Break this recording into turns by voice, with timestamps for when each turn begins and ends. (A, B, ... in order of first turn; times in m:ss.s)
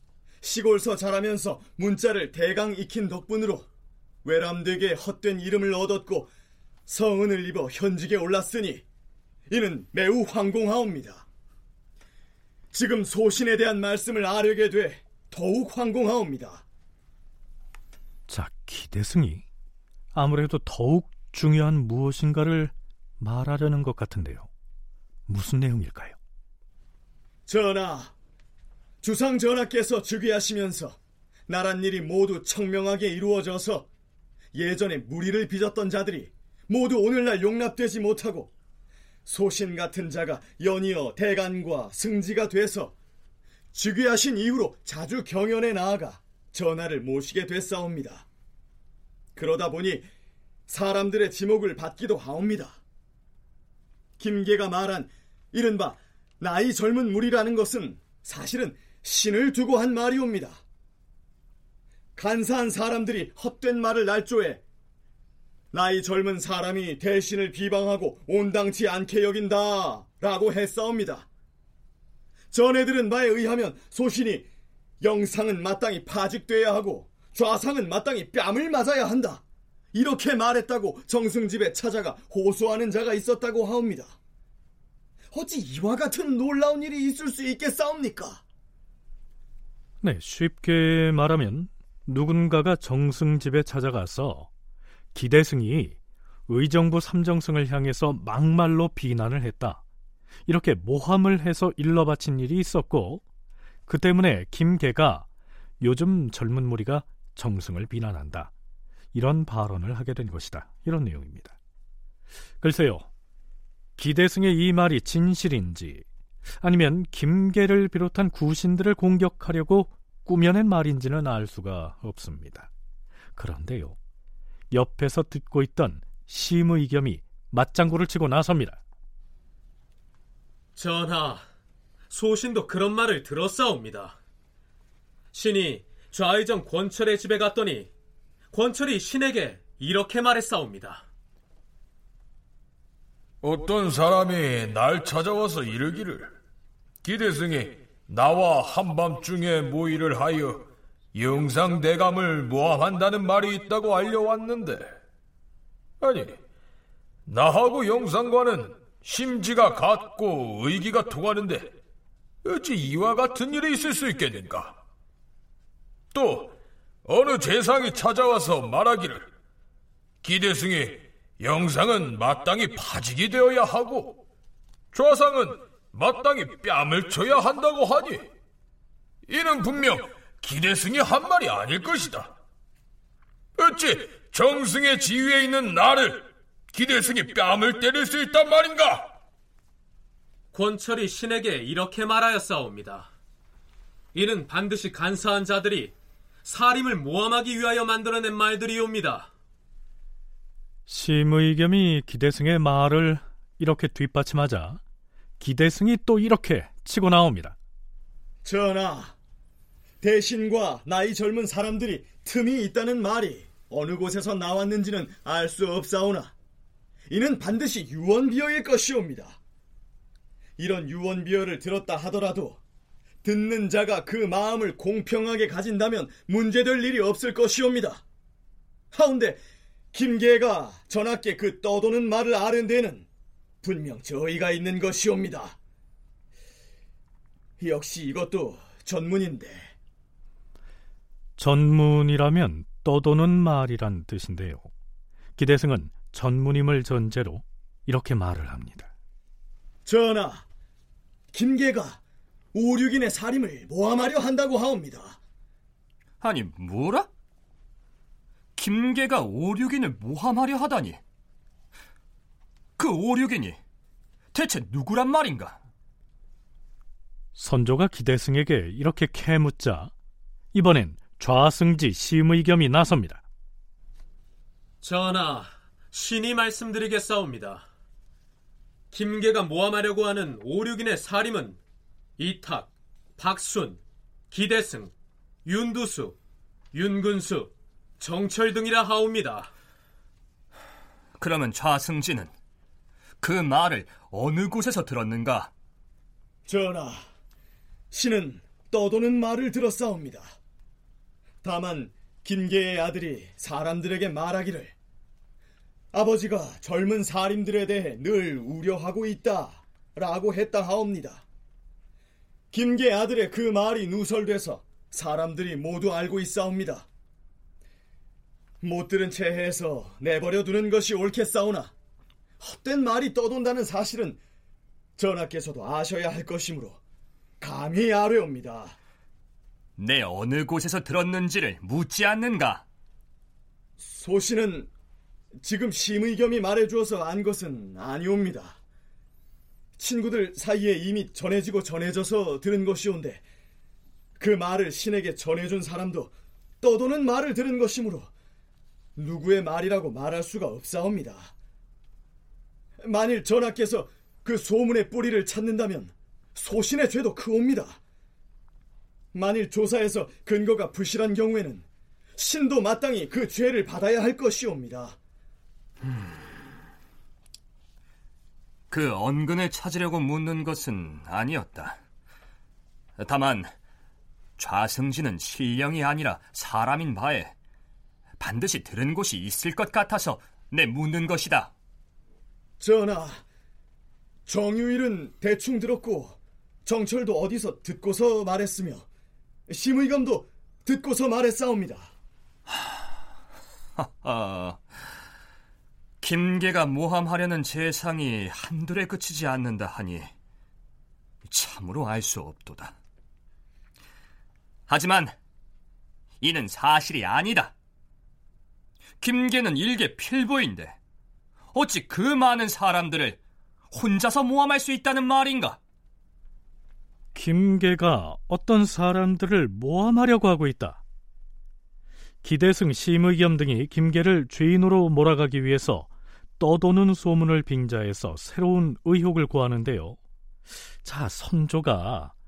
0:00.4-0:03.7 A
0:04.2-0:06.3 A
0:06.9-0:08.8 A
0:09.5-0:11.2 A
0:12.7-0:16.6 A
0:18.3-0:19.4 B
0:20.1-0:24.5 B
0:25.3-0:26.2 B
0:27.5-0:28.1 A
0:29.0-0:33.9 A
0:34.5-0:38.5 A
0:39.2-0:42.9 A
0:43.7-0:48.2 A
0:49.3-0:50.1 A
0:50.7-0:52.8 A
0:54.2-1:00.6 A
1:02.2-1:04.6 A
1:05.7-1:11.3 A
1:12.5-1:14.5 A
1:15.0-1:24.2 A
1:25.3-1:28.4 A
1:30.0-1:34.5 B
1:35.1-1:36.0 B
1:36.5-1:39.8 B
1:40.4-1:43.2 B
1:43.9-1:45.2 B
1:45.8-1:48.5 B
1:49.1-1:51.6 B
1:52.6-1:53.1 B
1:54.0-1:56.0 B
1:56.6-2:02.7 B
2:03.4-2:04.0 B
2:04.7-2:08.8 B
2:10.7-2:11.4 C
2:12.1-2:14.2 C
2:15.3-2:17.9 C
2:18.5-2:21.0 C
2:23.4-2:26.3 D
2:27.0-2:34.9 D
2:36.0-2:36.4 D
2:37.3-2:41.7 D
2:42.4-2:44.8 D
2:46.1-2:46.5 D
2:47.0-2:49.3 D
2:50.2-2:54.2 D
2:54.9-2:58.3 D
2:59.3-3:02.3 D
3:03.6-3:09.1 D
3:10.5-3:13.1 C
3:14.1-3:19.3 C
3:20.9-3:24.8 B
3:25.4-3:27.6 B
3:28.4-3:29.2 A
3:30.0-3:36.3 A
3:37.1-3:39.4 A
3:40.6-3:42.6 A
3:43.2-3:48.0 A
3:48.9-3:49.4 A
3:49.9-3:53.0 A
3:53.6-3:55.6 A
3:57.6-3:59.7 A
4:01.4-4:04.7 B
4:05.4-4:08.9 B
4:09.8-4:10.4 A
4:11.3-4:12.0 A
4:12.5-4:15.2 A
4:16.2-4:17.1 E
4:18.6-4:21.0 E
4:22.8-4:23.6 E
4:24.3-4:25.6 E
4:27.4-4:29.9 B
4:30.5-4:33.2 B
4:34.8-4:37.7 C
4:38.9-4:41.6 C
4:42.2-4:44.9 C
4:45.4-4:46.2 C
4:46.7-4:49.5 C
4:51.2-4:52.3 E
4:53.2-4:55.5 E
4:56.5-4:57.0 A
4:57.9-5:00.3 A
5:01.4-5:04.7 A
5:05.9-5:11.2 A
5:12.5-5:16.9 A
5:18.6-5:21.7 A
5:22.4-5:24.2 A
5:25.0-5:26.8 A
5:27.4-5:28.8 A
5:29.8-5:32.6 E
5:33.8-5:34.7 A
5:35.4-5:38.6 A
5:39.8-5:43.2 A
5:44.2-5:48.1 A
5:49.0-5:51.3 A
5:52.8-5:57.8 A
5:59.1-6:01.6 A
6:02.2-6:05.0 A
6:08.7-6:11.8 E
6:13.0-6:13.5 E
6:14.4-6:17.3 E
6:18.2-6:21.5 E
6:22.6-6:23.2 A
6:24.3-6:28.8 A
6:29.5-6:31.9 A
6:33.8-6:34.6 E
6:36.0-6:40.1 E
6:41.2-6:42.7 E
6:44.7-6:45.1 E
6:46.2-6:47.5 E
6:49.0-6:50.8 E
6:51.5-6:53.2 E
6:53.7-6:55.6 E
6:57.1-7:00.8 B
7:02.2-7:10.0 B
7:10.8-7:12.1 B